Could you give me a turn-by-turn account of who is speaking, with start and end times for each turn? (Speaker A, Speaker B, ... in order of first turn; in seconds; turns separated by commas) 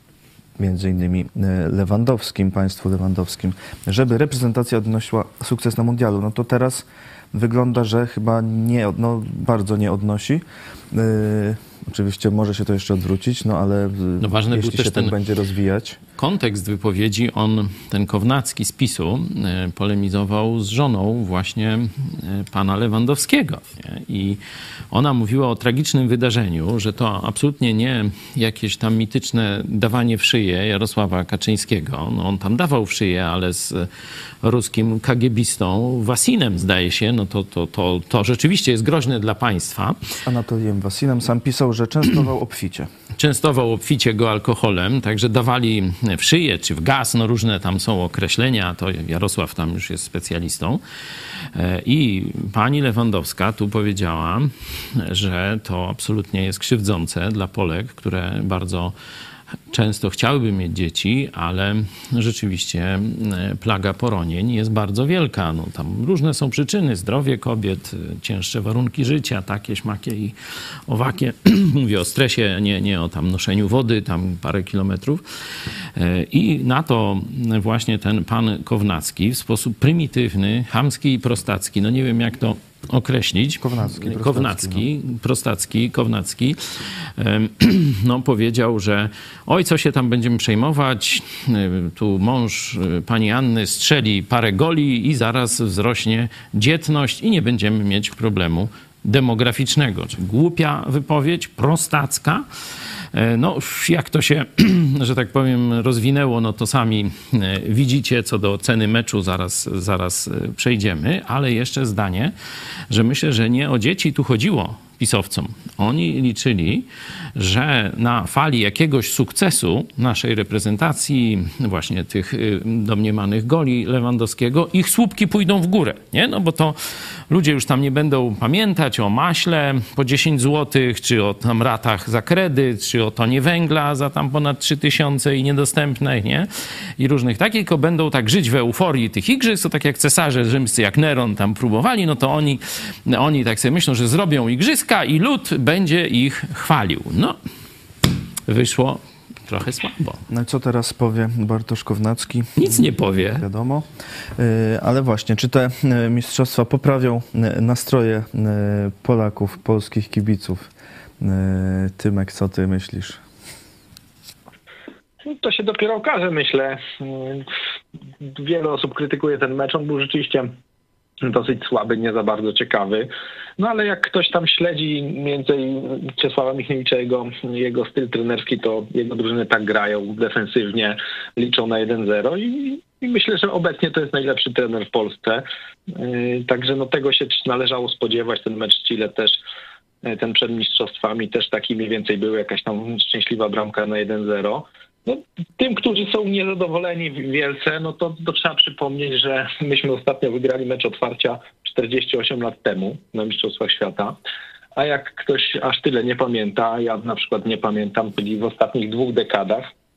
Speaker A: 0.6-16.0, Speaker B: 14.2-15.2, Speaker B: 16.2-24.4, Speaker B: 24.9-33.9, Speaker B: 34.4-40.0, Speaker A: 40.2-42.9, Speaker B: 43.2-50.8, Speaker B: 51.5-59.0, Speaker B: 59.7-70.4, Speaker B: 70.9-75.2, Speaker B: 76.0-86.6, Speaker A: 83.6-84.9, Speaker B: 87.2-102.5, Speaker B: 103.1-112.3, Speaker B: 112.9-126.8, Speaker B: 127.3-147.4, Speaker B: 148.5-150.2, Speaker A: 150.3-160.7, Speaker B: 152.6-153.4, Speaker A: 161.2-163.2, Speaker C: 165.2-167.5, Speaker C: 168.2-170.5, Speaker C: 171.2-189.3, Speaker C: 190.0-204.1, Speaker C: 204.8-209.7